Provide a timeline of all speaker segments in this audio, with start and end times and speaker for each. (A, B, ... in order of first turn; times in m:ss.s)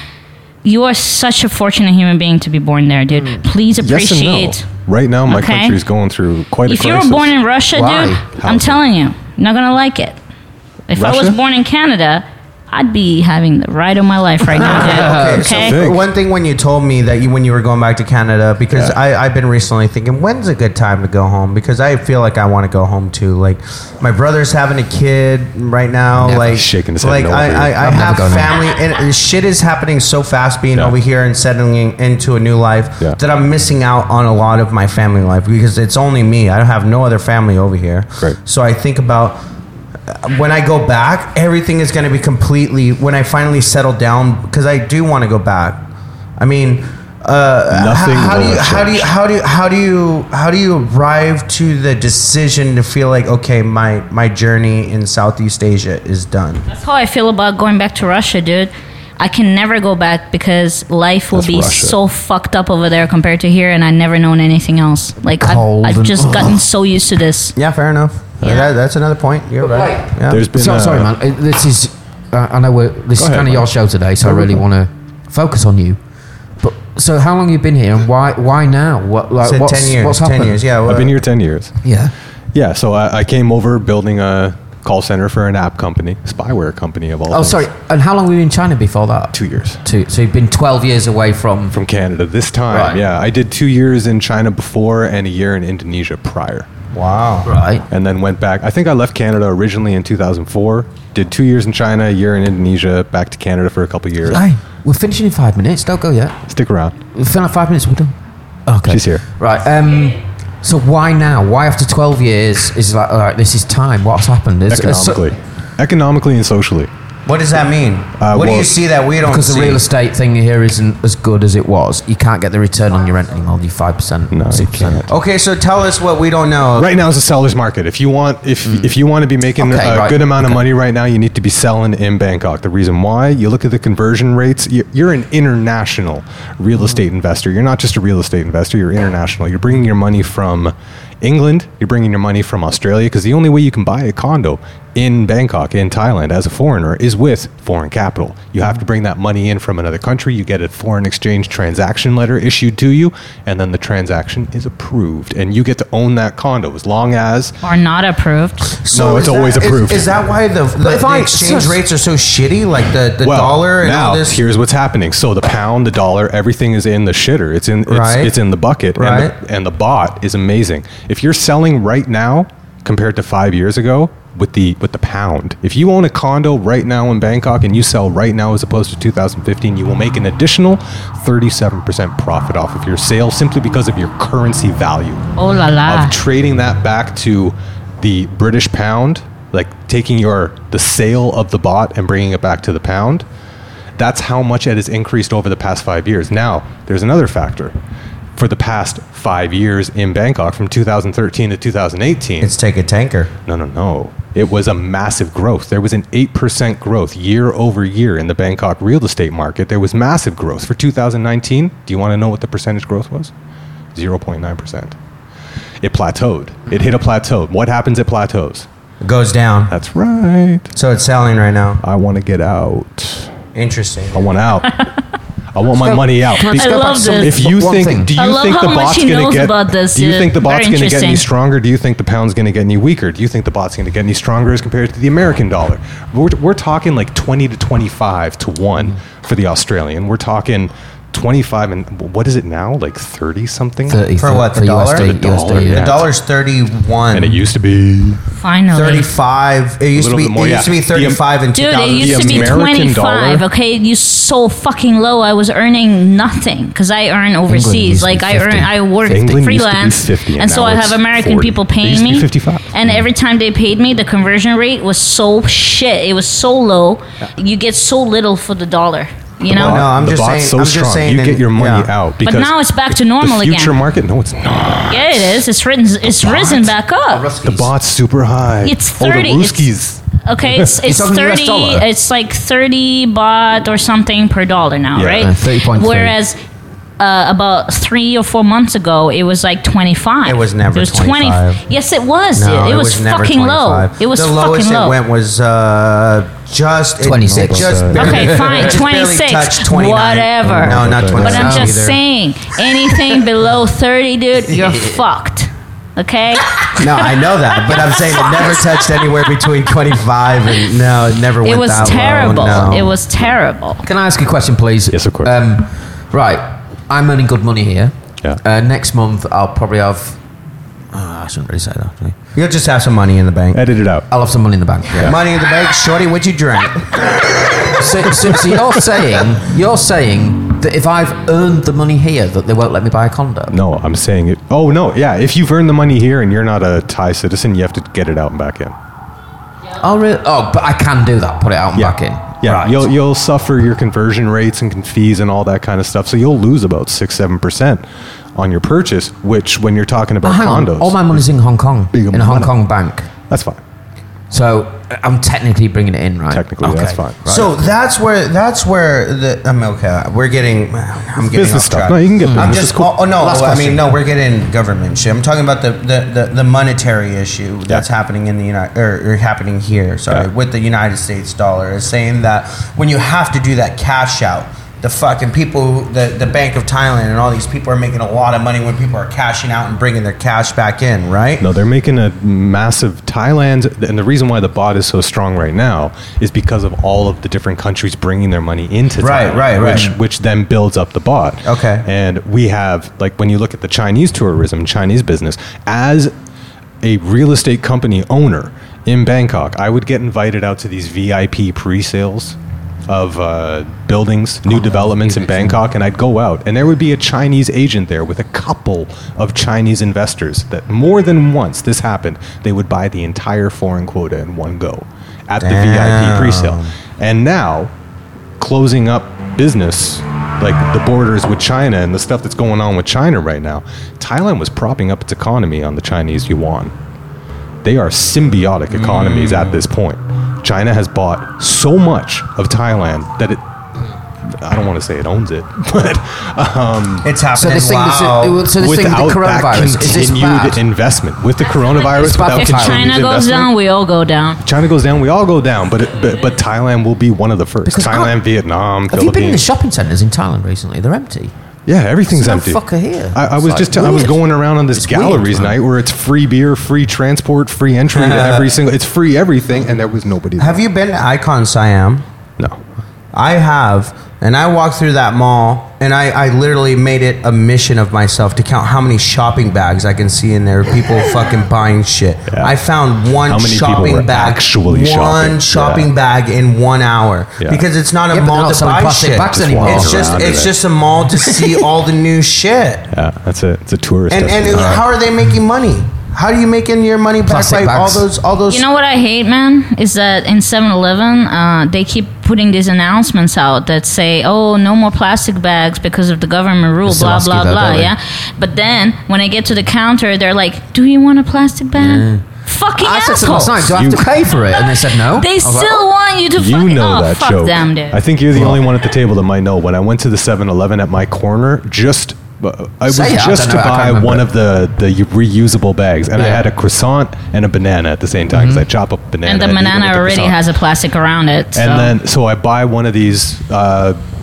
0:00.6-0:04.6 A
0:03.8-0:07.4 B
0:05.3-0:05.8 A
0:06.6-0:10.2 A
0:07.7-0:08.2 C
0:08.4-0:08.8 B
0:10.9-0:15.8 A
0:11.0-0:11.4 B
0:14.6-0:15.5 C
0:14.6-0:39.4 D
0:15.5-0:16.0 B
0:18.7-0:19.0 B
0:26.2-0:26.5 C
0:26.2-0:27.8 B
0:27.8-0:28.6 C
0:40.1-0:45.9 D
0:46.4-0:56.6 D
0:47.7-0:49.1 B
0:56.7-1:07.6 A
1:01.3-1:02.0 B
1:05.3-1:06.6 C
1:07.6-1:10.4 D
1:08.4-1:08.7 A
1:09.6-1:16.0 C
1:10.3-1:11.1 B
1:13.2-1:13.7 B
1:14.2-1:14.6 B
1:16.6-1:20.6 C
1:19.4-1:21.2 D
1:20.9-1:21.8 B
1:21.8-1:22.1 C
1:22.5-1:27.7 B
1:27.3-1:31.8 C
1:29.3-1:29.8 B
1:31.7-1:36.7 B
1:32.7-1:33.0 C
1:36.9-1:37.5 D
1:37.4-1:37.9 C
1:37.9-1:44.4 B
1:44.2-1:46.4 C
1:46.5-1:47.0 B
1:47.1-1:48.2 C
1:48.7-1:55.2 C
1:48.9-1:49.2 B
1:54.7-1:56.9 B
1:57.2-1:59.8 D
1:58.2-1:58.8 B
1:59.2-2:05.1 C
2:04.3-2:05.1 B
2:05.1-2:06.9 D
2:06.8-2:37.6 B
2:09.6-2:10.6 C
2:37.6-2:38.8 A
2:38.8-2:44.4 D
2:38.9-2:40.2 B
2:40.8-2:41.8 C
2:43.2-3:05.2 B
2:47.9-2:48.3 D
2:49.0-2:49.3 D
3:05.4-3:06.1 A
3:05.8-3:13.2 B
3:14.0-3:17.8 B
3:18.4-3:22.6 B
3:22.4-3:23.3 D
3:23.5-3:33.3 B
3:33.9-3:35.0 B
3:35.8-3:38.7 B
3:39.0-3:39.7 D
3:39.7-3:40.7 B
3:40.7-3:41.8 D
3:41.8-3:43.4 B
3:43.5-3:44.3 D
3:44.1-3:44.7 B
3:45.5-4:04.0 B
3:45.8-3:48.1 C
3:46.4-3:47.4 A
3:48.1-3:51.2 A
4:03.9-4:06.0 C
4:04.2-4:07.4 D
4:04.9-4:06.1 B
4:07.1-4:08.2 B
4:08.4-4:09.1 A
4:08.7-4:12.6 D
4:09.9-4:11.2 B
4:11.5-4:29.9 A
4:11.9-4:13.4 B
4:17.5-4:19.4 C
4:19.1-4:22.8 B
4:29.5-4:31.9 D
4:29.5-4:35.4 B
4:32.2-4:33.8 A
4:34.9-4:37.3 A
4:36.2-4:37.7 C
4:37.4-4:40.7 B
4:38.6-4:46.3 A
4:40.8-4:41.9 C
4:44.9-4:45.3 B
4:45.2-4:46.2 C
4:47.0-4:55.0 A
4:50.2-4:51.6 D
4:52.3-5:02.0 D
4:57.0-4:58.6 C
4:57.3-4:58.2 B
4:58.0-5:07.0 A
5:00.4-5:01.6 B
5:01.2-5:01.8 C
5:04.5-5:05.0 C
5:06.8-5:13.0 D
5:07.8-5:08.5 A
5:11.4-5:13.8 A
5:13.8-5:20.2 C
5:14.9-5:15.4 B
5:20.9-5:22.2 C
5:22.3-5:23.6 D
5:23.5-5:24.1 B
5:24.1-5:25.2 C
5:24.9-5:25.2 B
5:25.0-5:28.4 D
5:27.7-5:33.6 C
5:33.5-5:38.8 B
5:39.8-5:42.9 C
5:41.8-5:47.8 B
5:48.3-5:51.3 B
5:50.2-5:53.1 C
5:51.9-5:52.6 B
5:53.3-5:53.6 B
5:54.3-5:57.6 C
5:56.3-5:57.2 B
5:57.3-6:21.4 D
6:01.2-6:03.0 B
6:02.2-6:03.9 C
6:21.4-6:36.1 B
6:29.0-6:29.9 D
6:31.4-6:31.9 D
6:36.8-6:42.4 B
6:42.9-6:57.7 B
6:44.5-6:45.7 C
6:55.4-6:56.7 D
6:58.4-7:06.7 B
7:07.6-7:13.4 B
7:08.7-7:09.6 D
7:14.2-7:17.1 B
7:17.0-7:18.5 D
7:17.3-7:20.6 C
7:18.5-7:23.5 B
7:21.9-7:22.9 C
7:22.1-7:24.4 A
7:24.4-7:29.4 B
7:27.6-7:28.2 C
7:28.9-7:31.3 C
7:31.7-7:40.6 B
7:32.1-7:35.6 C
7:37.9-7:38.5 D
7:40.4-7:42.0 D
7:43.1-8:02.9 D
7:52.3-7:52.5 B
7:53.2-7:55.9 B
7:58.1-8:00.2 C
7:59.3-8:00.6 B
8:01.2-8:01.5 C
8:02.9-8:04.8 B
8:04.1-8:08.7 D
8:04.5-8:04.8 C
8:07.2-8:08.0 C
8:08.5-8:23.6 A
8:16.8-8:17.9 C
8:21.8-8:25.8 C
8:23.5-8:24.3 B
8:24.6-8:28.0 A
8:26.3-8:40.4 B
8:32.9-8:34.3 C
8:36.2-8:36.4 C
8:38.3-8:38.6 C
8:39.2-8:41.9 A
8:41.5-8:44.0 B